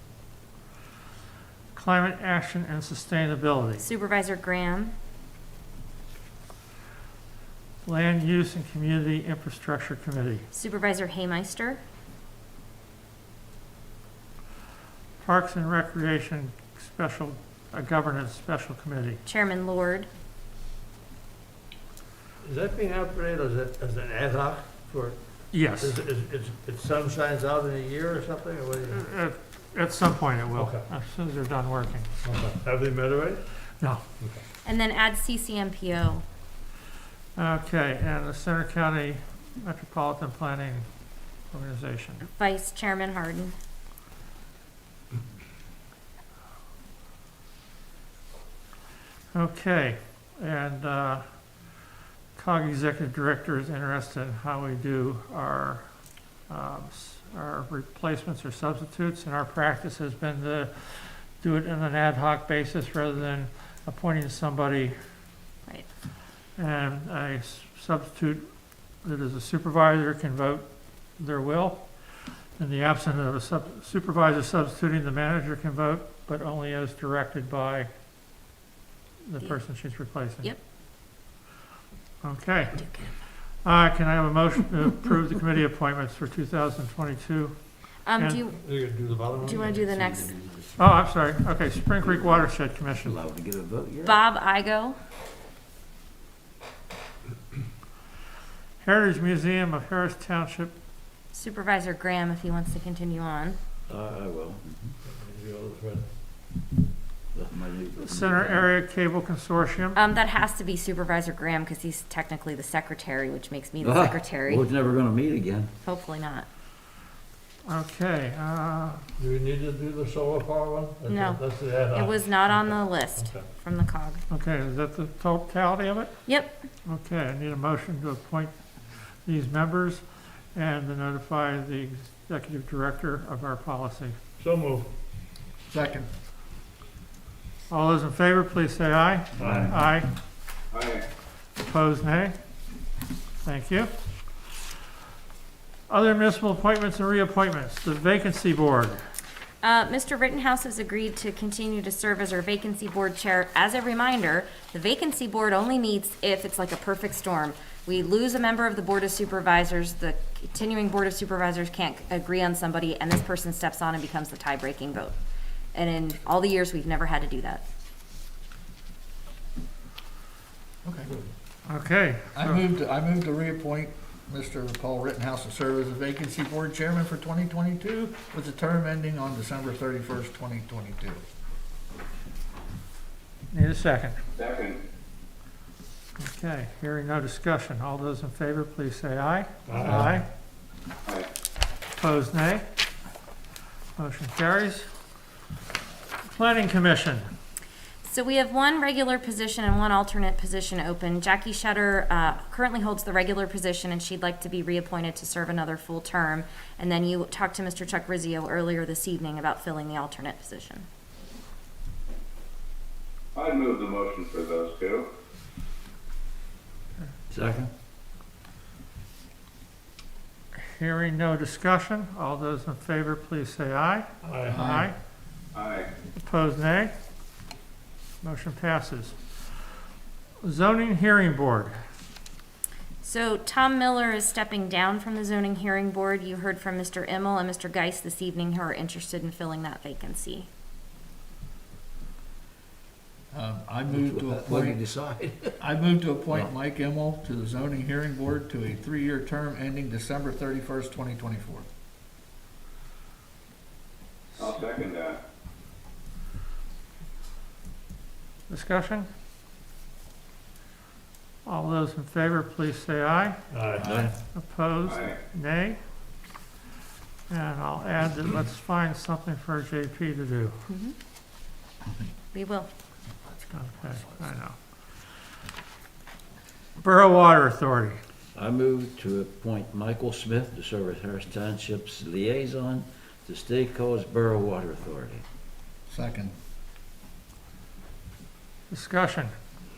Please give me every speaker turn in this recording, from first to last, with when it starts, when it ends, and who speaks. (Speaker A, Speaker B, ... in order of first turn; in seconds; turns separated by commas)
Speaker A: 1.7-3.9, Speaker B: 3.8-4.9, Speaker A: 7.8-10.5, Speaker B: 10.5-11.8, Speaker A: 15.2-19.2, Speaker B: 19.2-20.1, Speaker C: 22.4-29.1, Speaker A: 25.5-25.9, Speaker A: 28.9-32.1, Speaker C: 30.6-30.9, Speaker C: 32.2-33.4, Speaker B: 34.6-36.2, Speaker A: 37.4-40.9, Speaker A: 41.5-42.3, Speaker B: 42.4-43.5, Speaker A: 49.3-51.2, Speaker A: 52.3-55.8, Speaker A: 56.5-65.0, Speaker A: 66.6-68.5, Speaker A: 69.0-70.7, Speaker A: 71.2-71.9, Speaker A: 72.6-77.9, Speaker A: 79.2-80.5, Speaker A: 82.2-82.8, Speaker B: 82.8-83.1, Speaker A: 83.6-87.6, Speaker B: 88.0-88.6, Speaker A: 88.1-88.4, Speaker C: 88.6-90.2, Speaker B: 89.4-90.3, Speaker A: 90.8-93.2, Speaker D: 92.0-92.4, Speaker D: 93.0-94.2, Speaker B: 94.0-95.0, Speaker A: 98.8-100.7, Speaker B: 101.3-103.6, Speaker D: 103.9-105.0, Speaker C: 105.1-106.0, Speaker D: 107.3-108.7, Speaker A: 108.0-110.0, Speaker B: 110.0-114.7, Speaker D: 113.8-115.7, Speaker B: 115.8-116.5, Speaker A: 117.6-119.0, Speaker C: 119.2-123.5, Speaker B: 121.1-124.2, Speaker A: 124.3-126.2, Speaker B: 126.3-126.6, Speaker A: 126.8-128.5, Speaker A: 129.2-130.0, Speaker A: 130.5-134.2, Speaker C: 134.4-134.9, Speaker E: 135.7-136.1, Speaker A: 137.7-140.1, Speaker C: 139.4-139.7, Speaker F: 140.7-141.1, Speaker A: 141.6-142.3, Speaker A: 143.4-143.9, Speaker A: 145.9-149.0, Speaker B: 149.6-165.1, Speaker B: 165.7-167.6, Speaker E: 170.8-171.1, Speaker A: 171.7-172.6, Speaker E: 172.3-181.2, Speaker A: 183.5-184.2, Speaker F: 184.3-184.8, Speaker A: 186.2-190.3, Speaker C: 189.7-190.2, Speaker A: 192.0-192.6, Speaker A: 194.0-194.9, Speaker A: 196.2-197.3, Speaker B: 198.0-210.8, Speaker F: 213.3-215.1, Speaker D: 217.3-217.7, Speaker A: 220.5-224.9, Speaker C: 224.2-224.7, Speaker E: 224.5-224.9, Speaker F: 225.5-225.9, Speaker A: 226.1-226.9, Speaker A: 228.2-229.2, Speaker A: 230.4-231.7, Speaker B: 233.0-240.5, Speaker E: 243.3-244.8, Speaker D: 243.9-245.6, Speaker E: 245.6-251.7, Speaker F: 254.4-255.2, Speaker A: 258.5-259.1, Speaker A: 261.4-263.4, Speaker C: 263.5-263.8, Speaker D: 263.8-264.1, Speaker A: 263.9-265.8, Speaker F: 264.9-265.1, Speaker A: 267.3-270.6, Speaker B: 270.7-270.9, Speaker B: 272.3-272.7, Speaker A: 273.5-274.6, Speaker A: 276.8-278.0, Speaker D: 278.3-285.2, Speaker E: 285.9-286.3, Speaker A: 288.7-289.3